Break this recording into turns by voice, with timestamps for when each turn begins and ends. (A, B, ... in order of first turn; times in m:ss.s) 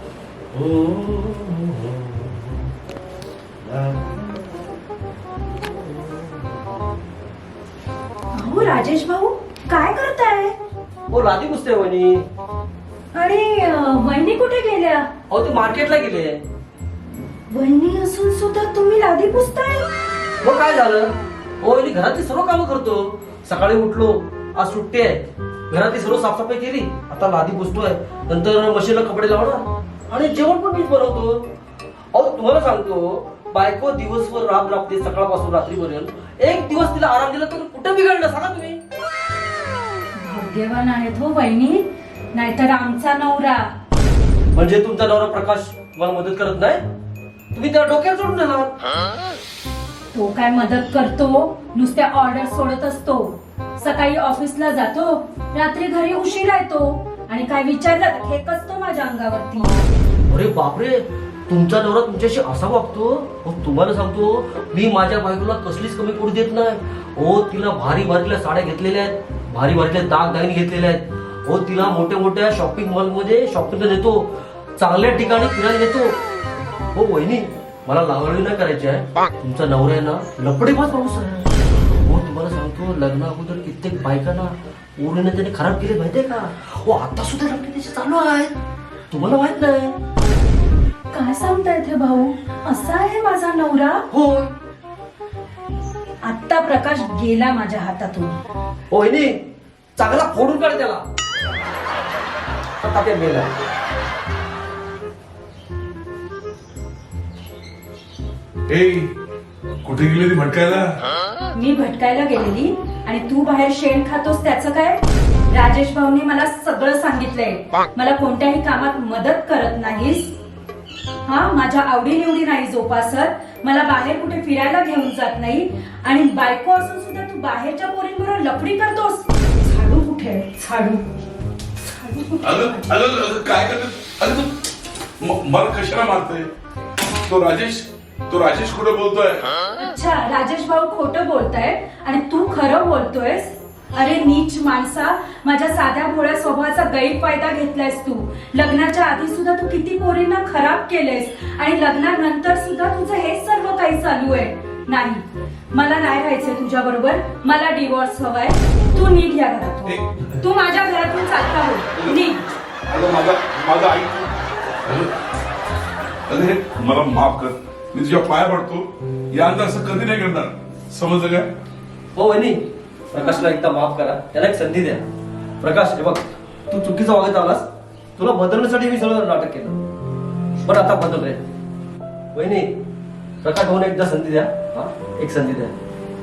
0:00.5-0:02.4 A
0:03.6-0:04.2 A
0:08.3-0:10.6 B
0:11.1-0:12.2 A
0:13.1-0:15.1 B
0:15.3-0:16.4 A
0:17.5-0:20.0 B
0:20.4-0:31.5 A
0:32.1-0:38.8 A
0:40.2-0:43.7 B
0:44.5-0:46.8 A
0:47.5-0:48.7 A
0:50.1-0:59.8 B
1:00.3-1:16.2 A
1:16.9-1:28.6 A
1:29.1-1:30.0 A
1:31.1-1:34.0 B
1:34.1-1:34.5 A
1:36.2-1:38.4 B
1:38.9-1:39.4 A
1:40.0-1:41.0 A
1:42.8-1:43.5 A
1:48.7-1:49.1 C
1:49.8-1:51.0 C
1:51.5-2:00.3 B
2:01.2-2:11.1 B
2:11.8-2:12.9 B
2:12.4-2:14.5 C
2:15.2-2:16.5 C
2:17.3-2:19.5 C
2:19.7-2:42.5 B
2:39.9-2:40.3 C
2:42.9-2:44.3 C
2:44.8-2:45.1 C
2:46.3-2:51.5 C
2:52.2-2:55.1 A
2:55.6-2:59.8 A
3:00.6-3:01.4 A
3:02.3-3:02.8 A
3:03.4-3:05.8 A